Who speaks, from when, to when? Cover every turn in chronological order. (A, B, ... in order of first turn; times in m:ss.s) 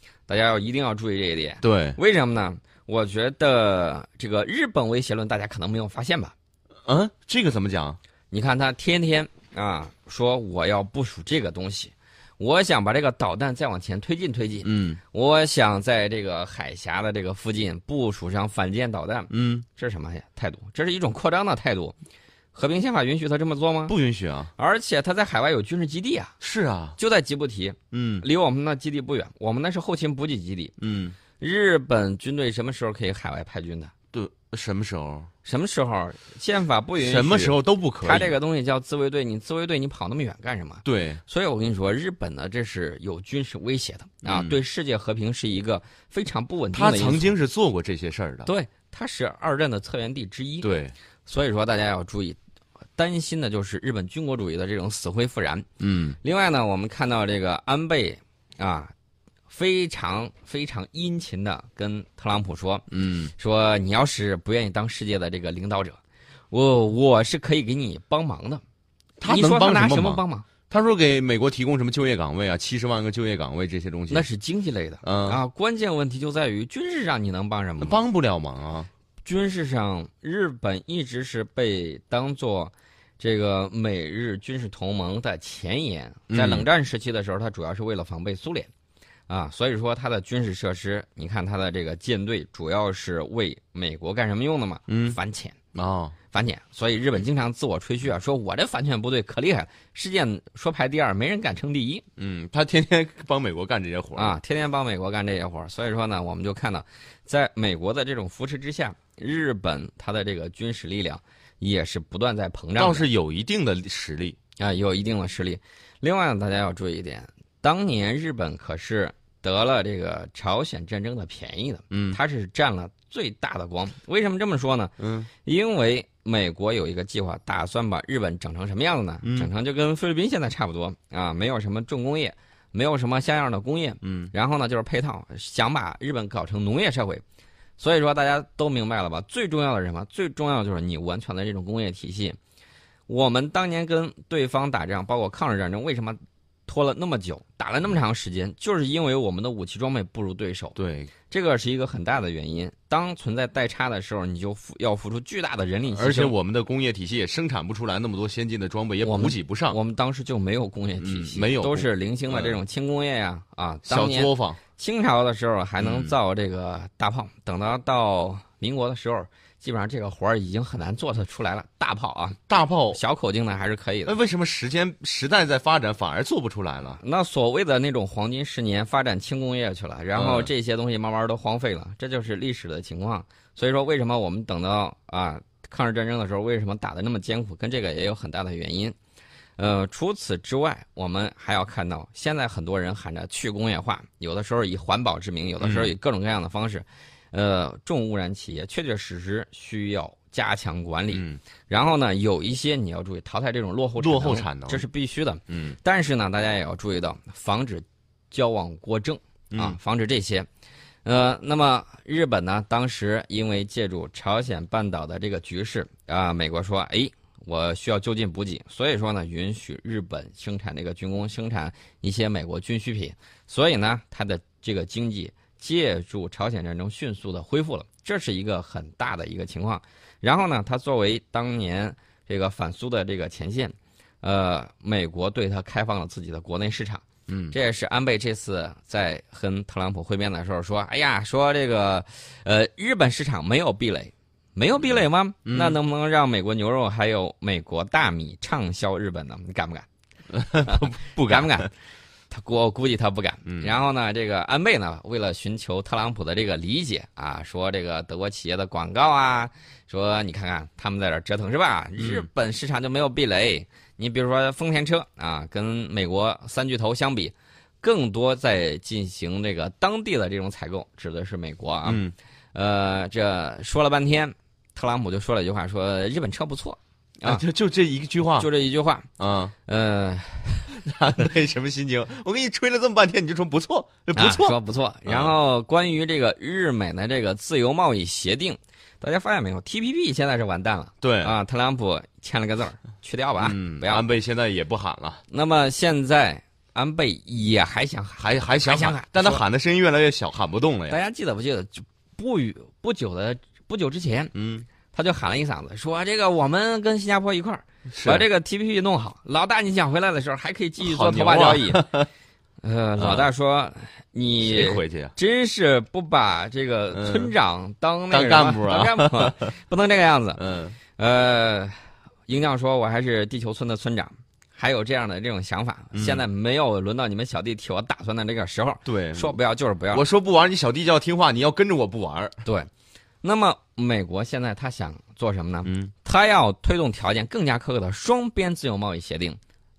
0:00.3-0:06.3 A
0:01.6-0:02.0 B
0:06.8-0:08.0 B
0:08.3-0:21.9 A
0:14.6-0:15.0 B
0:19.3-0:19.6 B
0:22.5-0:23.9 A
0:23.9-0:24.5 B
0:24.6-0:26.3 A
0:26.4-0:27.0 B
0:27.0-0:30.7 A
0:27.9-0:28.2 B
0:30.8-0:31.2 B
0:31.4-0:33.9 A
0:34.1-0:35.3 B
0:35.4-0:47.3 A
0:37.0-0:38.3 B
0:40.8-0:41.2 B
0:44.2-0:44.6 B
0:46.7-0:48.5 B
0:48.4-0:50.7 A
0:50.6-0:50.9 B
0:51.2-0:52.4 A
0:53.0-0:55.6 A
0:55.8-0:56.2 B
0:56.2-0:58.9 A
0:59.5-1:06.0 A
1:02.9-1:03.3 B
1:06.5-1:08.6 A
1:09.2-1:14.3 B
1:09.2-1:10.5 A
1:14.1-1:18.0 A
1:15.0-1:15.4 B
1:17.8-1:18.9 B
1:19.2-1:28.7 A
1:26.3-1:26.7 B
1:29.3-1:35.6 A
1:34.9-1:35.2 B
1:35.7-1:36.2 B
1:36.3-1:42.0 A
1:42.2-1:44.4 B
1:44.2-1:53.1 A
1:52.8-1:54.4 B
1:54.6-2:17.2 A
2:01.9-2:02.2 B
2:05.0-2:05.3 B
2:09.2-2:09.5 B
2:14.0-2:14.3 B
2:17.8-2:22.4 A
2:23.1-2:30.8 A
2:30.8-2:31.1 B
2:31.3-2:36.3 A
2:35.9-2:39.8 B
2:39.0-2:52.4 A
2:41.0-2:42.6 B
2:43.8-2:44.6 B
2:45.8-2:46.1 B
2:52.5-2:53.0 B
2:52.9-2:54.1 A
2:54.0-2:57.0 B
2:57.0-3:09.0 A
3:00.1-3:00.5 B
3:09.6-3:30.5 A
3:15.6-3:15.9 B
3:21.1-3:21.4 B
3:24.0-3:24.8 B
3:25.5-3:25.8 B
3:29.5-3:29.8 B
3:31.0-4:09.9 A
3:57.3-3:57.6 B
4:05.4-4:05.8 B
4:10.3-4:11.6 B
4:10.6-4:11.7 A
4:12.3-4:32.0 A
4:13.4-4:13.8 B
4:22.0-4:22.3 B
4:31.8-4:32.1 B
4:32.5-4:37.4 A
4:37.2-4:38.5 B
4:38.4-4:39.1 A
4:39.2-4:39.5 B
4:39.6-4:40.8 A
4:40.7-4:45.3 B
4:44.1-4:54.0 A
4:51.0-4:51.4 B
4:53.4-4:55.2 B
4:55.3-4:59.4 A
4:58.2-5:01.0 B
5:00.9-5:04.3 A
5:04.3-5:04.7 B
5:04.9-5:11.8 A
5:07.9-5:08.2 B
5:10.8-5:12.1 B
5:12.6-5:20.4 A
5:13.0-5:13.3 B
5:14.4-5:15.1 B
5:16.9-5:17.3 B
5:18.1-5:19.5 B
5:20.4-5:20.8 B
5:21.0-5:30.0 A
5:25.9-5:26.2 B
5:28.8-5:29.4 B
5:29.9-5:32.4 B
5:32.4-5:32.7 A
5:33.2-5:39.4 A
5:35.6-5:35.9 B